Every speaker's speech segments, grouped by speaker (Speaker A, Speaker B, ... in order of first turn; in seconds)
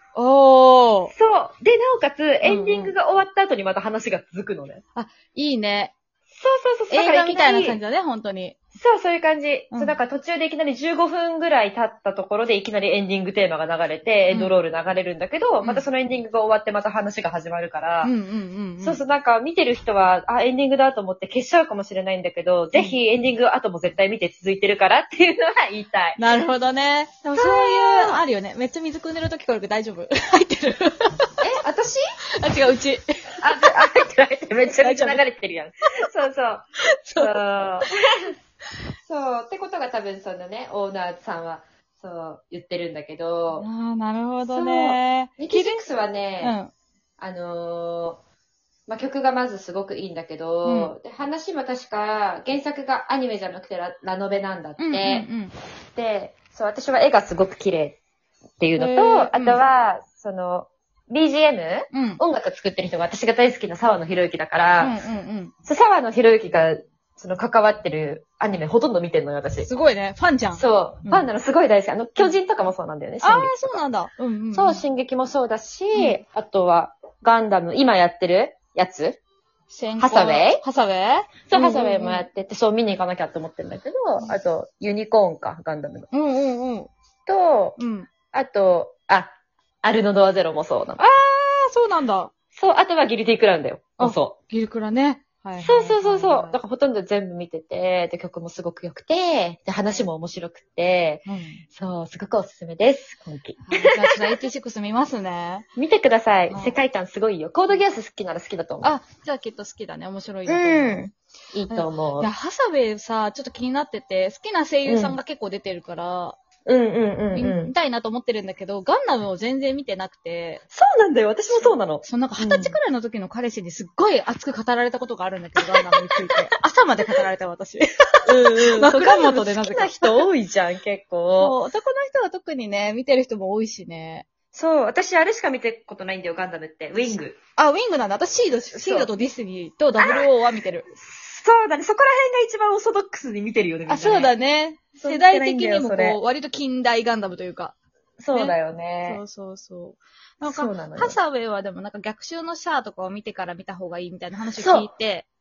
Speaker A: 0.1-1.1, 2.4-2.9, 5.0-5.9, 6.9-8.6, 9.7-10.0, 18.0-19.0, 26.2-31.4, 32.4-33.3, 34.8-35.2, 37.0-37.3, 43.5-45.8, 46.4-46.7, 50.6-50.9, 54.8-55.5, 58.8-59.6, 61.9-62.2, 64.8-65.5, 69.6-71.3, 73.2-74.8, 79.7-82.3, 86.1-86.9, 87.8-88.1, 91.0-92.3, 94.0-96.6, 101.3-101.6, 103.7-105.7, 106.5-106.8, 108.8-111.0, 111.7-116.4, 117.3-120.6, 121.5-130.3, 131.3-134.3, 137.1-140.9, 143.9-147.8, 148.3-155.3
Speaker B: 1.1-4.8, 6.3-7.8, 8.8-18.1, 18.8-26.2, 27.4-28.2, 31.4-32.0, 33.4-36.7, 37.2-37.9, 39.0-43.7, 44.5-46.6, 47.2-48.2, 48.9-55.3, 56.0-58.0, 58.6-65.0, 65.7-69.7, 70.6-73.8, 74.5-79.2, 80.0-80.6, 81.5-86.1, 87.3-87.8, 88.3-91.0, 92.6-94.3, 95.6-101.2, 101.7-104.3, 105.8-108.9, 110.5-112.3, 114.8-115.2, 116.7-117.7, 120.7-122.8, 128.3-131.5, 134.5-137.4, 138.7-139.1, 140.0-140.3, 140.9-144.3, 145.0-146.2, 148.2-149.2, 150.4-151.2, 154.6-154.9